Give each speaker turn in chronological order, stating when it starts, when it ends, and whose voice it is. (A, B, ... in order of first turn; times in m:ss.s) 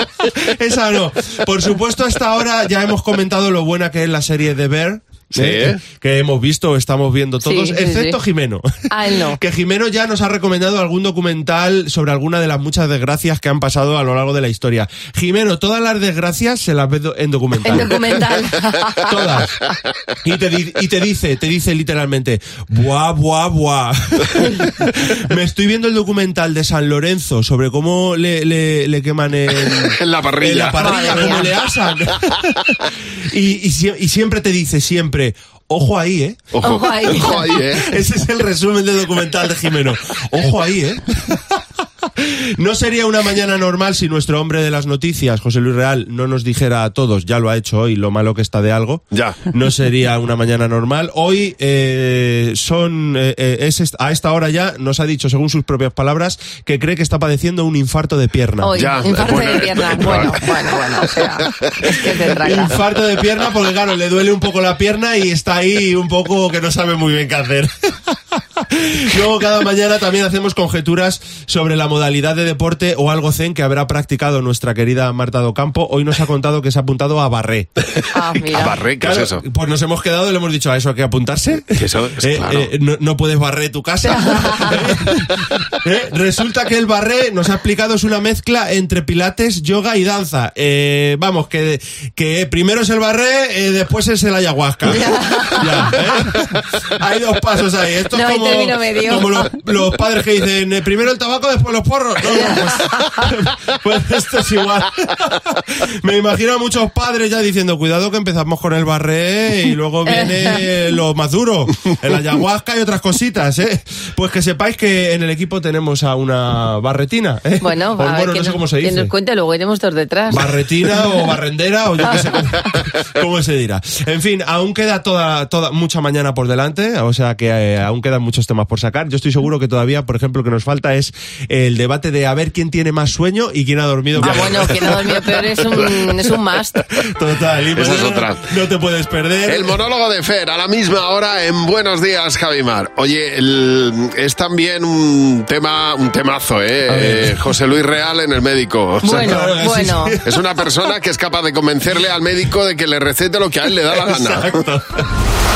0:00.3-0:08.7 A
0:05.3-0:05.8 B
0:07.4-0:08.2 C
0:08.9-0:09.4 C
0:09.3-0:18.3 A
0:17.6-0:19.2 C
0:19.0-0:19.6 A
0:20.2-0:32.4 A
0:29.7-0:31.5 B
0:30.8-0:31.5 C
0:33.3-0:41.4 A
0:36.5-0:37.9 B
0:36.6-0:37.5 C
0:42.2-0:58.8 A
0:49.1-0:49.4 B
0:58.6-1:02.8 C
0:58.8-1:00.3 B
1:00.0-1:00.3 A
1:02.1-1:07.7 A
1:08.7-1:17.7 A
1:18.1-1:18.8 C
1:18.5-1:19.4 B
1:19.0-1:59.1 A
1:21.8-1:22.7 B
1:24.0-1:24.7 C
1:34.8-1:35.9 C
1:38.1-1:39.5 C
1:42.2-1:43.2 C
1:50.1-1:50.6 C
1:57.6-2:00.5 C
2:00.3-2:15.6 A
2:14.2-2:16.8 C
2:17.0-2:19.8 A
2:17.8-2:18.4 B
2:19.5-2:29.5 B
2:26.9-2:27.2 A
2:29.0-2:30.2 C
2:29.1-2:30.4 A
2:30.2-2:34.6 B
2:33.9-2:35.1 A